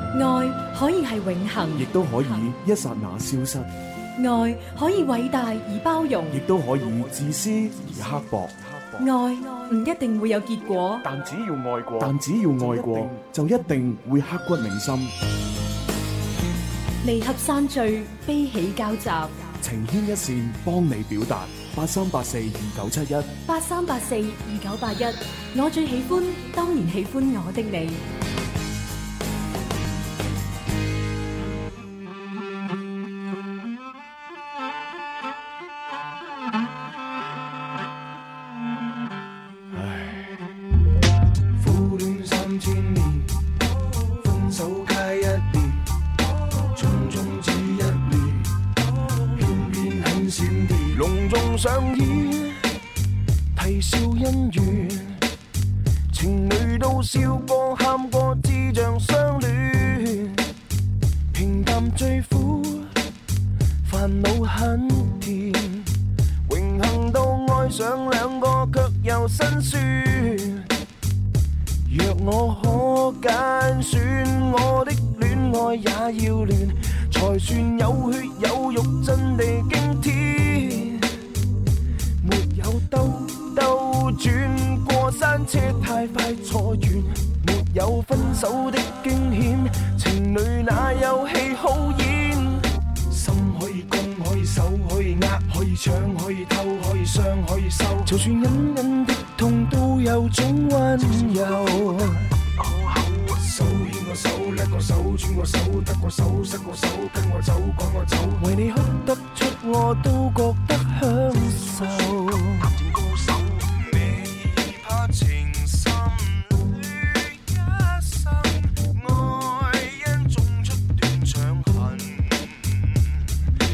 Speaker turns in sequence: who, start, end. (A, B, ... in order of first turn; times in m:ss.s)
0:00.1-0:02.5 A
0:01.7-0:03.7 B
0:04.2-0:06.4 A
0:06.3-0:09.1 B
0:09.0-0:11.0 A
0:11.0-0:15.1 B
0:17.0-0:19.3 A
0:19.6-0:23.4 B
0:23.5-0:28.0 A
0:39.7-0:40.3 C
0:41.6-0:43.3 C
0:44.1-0:45.8 C
0:46.7-0:48.5 C
0:49.3-0:52.6 C
0:53.5-0:55.2 C
0:56.1-1:00.4 C
1:01.3-1:02.9 C
1:03.8-1:05.9 C
1:06.5-1:10.7 C
1:11.9-1:21.1 C
1:22.2-2:03.2 C